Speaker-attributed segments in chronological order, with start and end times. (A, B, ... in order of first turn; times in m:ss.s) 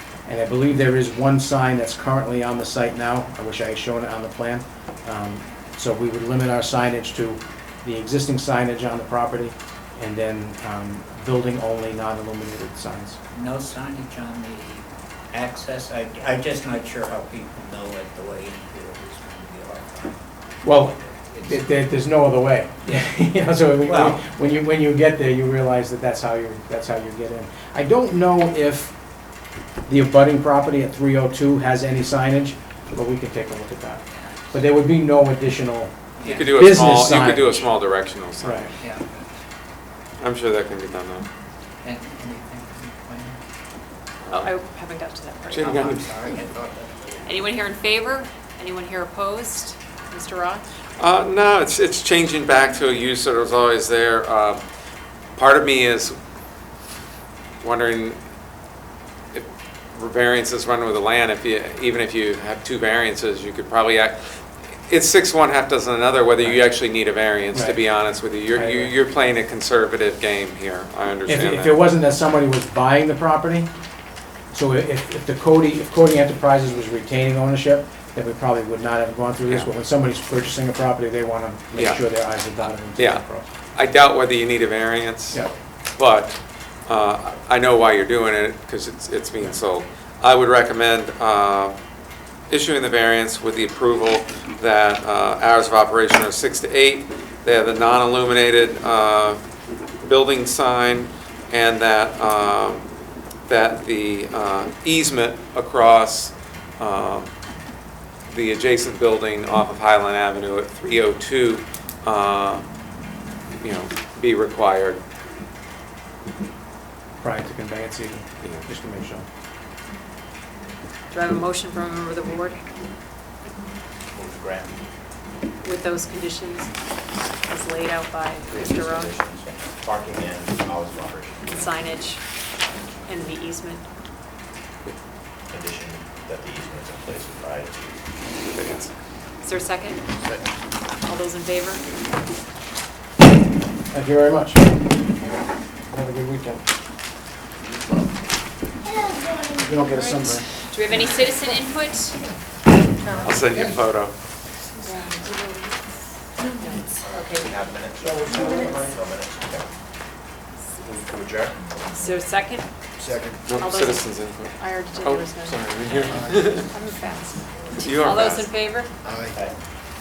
0:00.3-0:13.2 A
0:13.3-0:20.2 B
0:20.6-0:28.9 A
0:20.8-0:21.7 B
0:22.8-0:23.2 B
0:23.8-0:24.2 B
0:29.9-0:37.7 A
0:34.1-0:34.5 B
0:36.2-0:36.8 B
0:36.3-0:38.8 C
0:38.4-0:38.7 A
0:38.8-0:39.4 B
0:40.2-0:41.3 C
0:41.8-0:43.4 B
0:44.3-0:44.5 C
0:44.3-0:45.7 D
0:45.5-0:46.2 C
0:45.6-0:47.1 B
0:47.2-0:50.6 D
0:51.0-0:54.6 C
0:55.4-0:56.2 C
0:57.6-0:58.2 C
0:59.3-1:04.4 C
1:04.9-1:11.8 C
1:06.4-1:06.7 A
1:07.5-1:07.8 A
1:08.5-1:08.9 A
1:11.3-1:13.7 A
1:14.5-1:23.5 A
1:21.8-1:25.4 C
1:26.0-1:31.8 C
1:32.5-1:39.4 C
1:40.0-1:42.9 C
1:43.5-1:47.3 C
1:48.3-1:52.7 C
1:53.6-1:55.0 C
1:57.2-1:59.2 A
2:01.1-2:02.6 D
2:04.1-2:04.7 E
2:05.6-2:06.7 D
2:07.4-2:09.2 D
2:08.5-2:11.6 E
2:11.5-2:12.2 D
2:13.1-2:13.9 D
2:15.5-2:17.8 E
2:18.5-2:18.9 C
2:19.4-2:20.0 D
2:21.0-2:21.8 D
2:23.9-2:24.8 A
2:25.9-2:26.6 A
2:29.5-2:30.4 A
2:30.7-2:32.2 D
2:33.2-2:34.2 C
2:34.8-2:35.8 D
2:36.5-2:37.0 D
2:37.0-2:39.7 E
2:40.8-2:41.6 E
2:42.0-2:42.7 D
2:43.5-2:46.7 C
2:43.6-2:45.6 D
2:46.7-2:48.9 D
2:47.8-2:48.5 C